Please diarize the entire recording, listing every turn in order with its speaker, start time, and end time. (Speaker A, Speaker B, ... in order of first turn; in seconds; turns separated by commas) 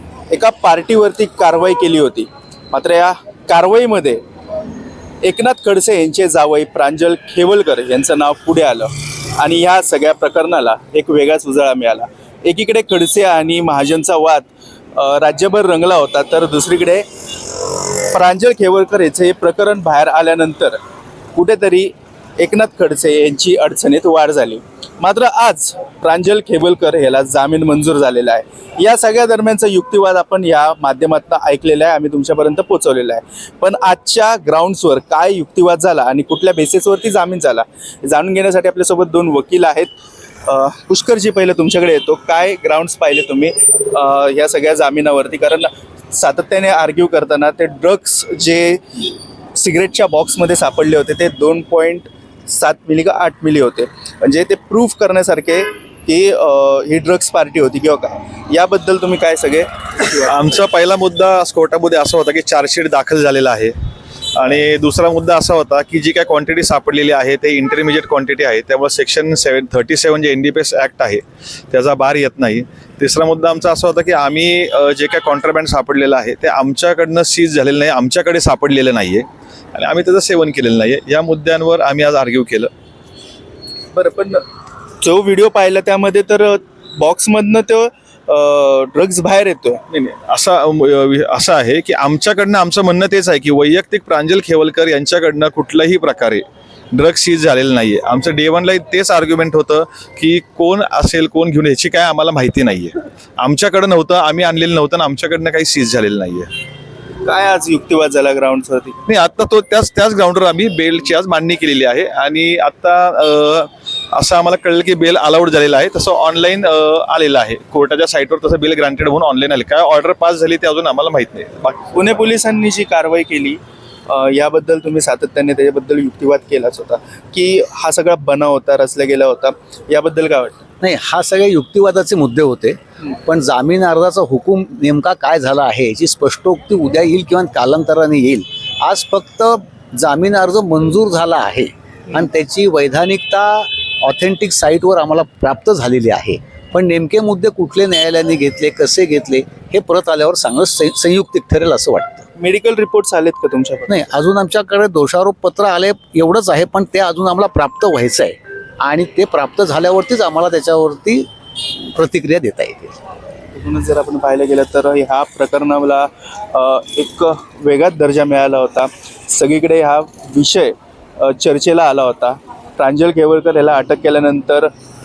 Speaker A: 0.3-4.2, Speaker A: 5.2-17.0, Speaker A: 18.0-20.8, Speaker A: 21.3-39.9, Speaker A: 40.4-49.0, Speaker A: 49.5-59.7, Speaker B: 60.2-63.7, Speaker B: 64.3-82.7, Speaker A: 83.9-84.4, Speaker A: 85.0-89.8, Speaker B: 89.9-106.5, Speaker A: 107.2-109.0, Speaker B: 109.1-121.9, Speaker A: 121.9-130.6, Speaker C: 130.8-152.2, Speaker A: 152.3-154.0, Speaker C: 153.9-162.9, Speaker A: 163.5-174.7